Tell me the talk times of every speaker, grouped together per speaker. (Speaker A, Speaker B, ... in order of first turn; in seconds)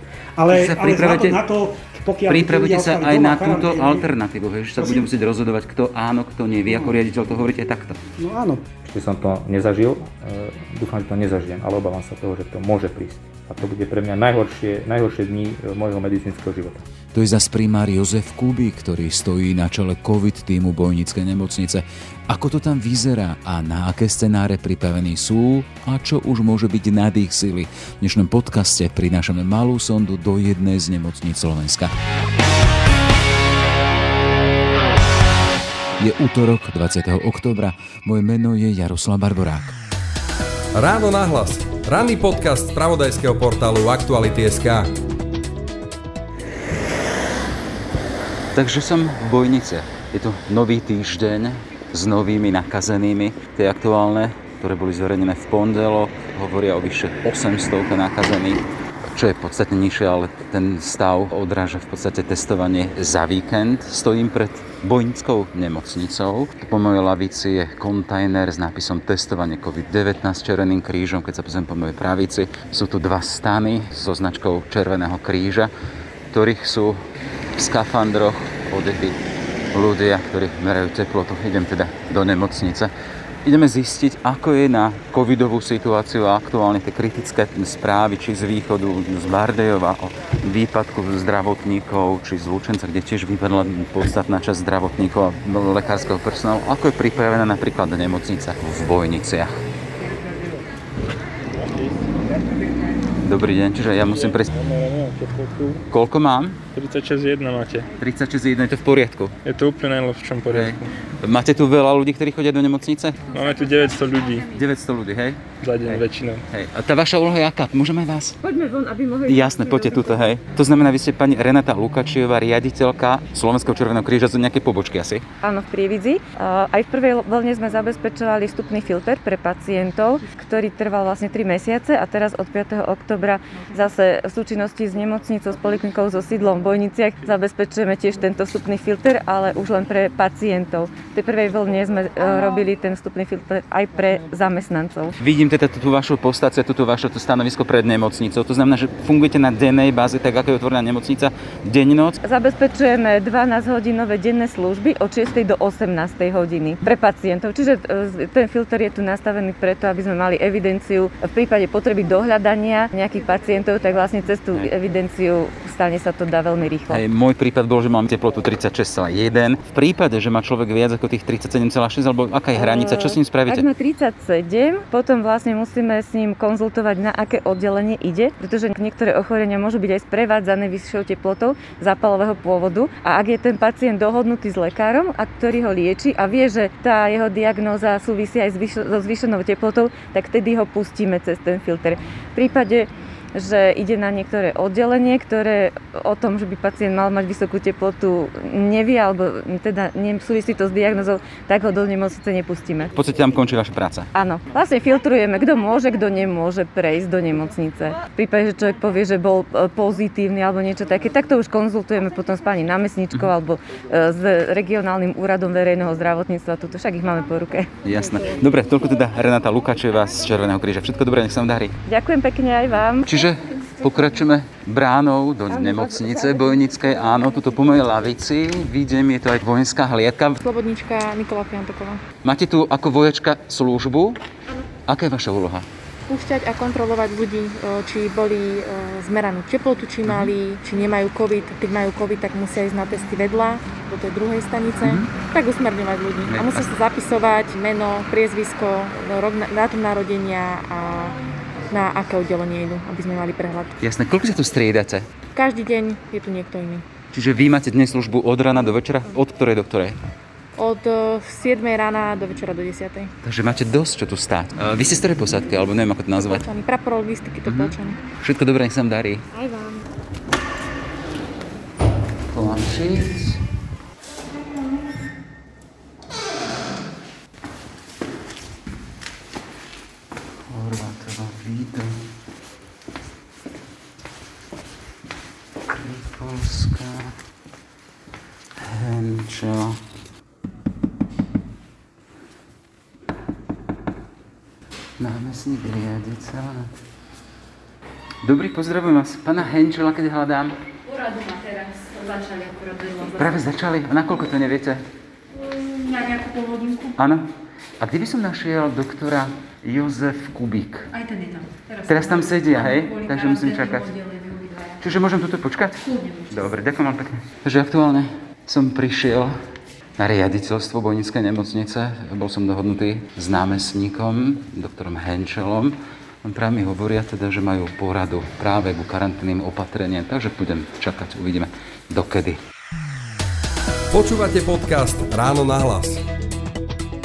Speaker A: 0.4-4.1, 4.8-5.1, 6.7-7.0, 8.2-8.6
Speaker B: 0.5-1.4, 2.3-8.0, 17.1-31.9, 36.0-39.8, 48.5-75.7, 76.3-77.0, 77.6-79.2, 79.7-82.9, 83.4-99.6, 103.2-104.5, 105.9-106.6, 108.0-109.3, 110.5-113.4, 114.5-118.4, 119.3-125.2, 145.2-152.2, 166.9-173.7, 202.9-204.1, 217.8-221.8, 223.0-230.4, 232.2-234.2, 234.9-235.7, 240.1-240.3, 244.8-245.1, 246.3-246.7, 253.8-255.1, 257.1-260.0, 263.2-266.5, 267.4-269.3, 272.3-273.5, 280.5-282.1, 285.6-287.2, 288.6-289.8, 295.0-296.7, 298.2-300.6, 303.1-304.8, 306.9-310.9, 311.9-314.0, 314.8-319.4, 320.0-332.4
Speaker C: 8.8-16.9
Speaker D: 40.8-44.9, 333.9-336.0
Speaker E: 100.2-100.6, 101.5-102.0, 104.1-105.8, 106.7-107.9, 109.5-110.9, 113.3-114.5, 115.6-116.4
Speaker F: 118.4-120.2, 125.4-145.2, 152.2-167.0, 172.6-203.0, 204.1-217.9, 221.9-223.1, 225.6-226.4
Speaker G: 230.4-232.0, 236.1-251.2, 251.7-253.8, 255.3-256.9, 260.6-263.1, 266.2-268.0
Speaker H: 300.9-303.4, 305.5-306.9, 310.9-314.8, 315.8-316.5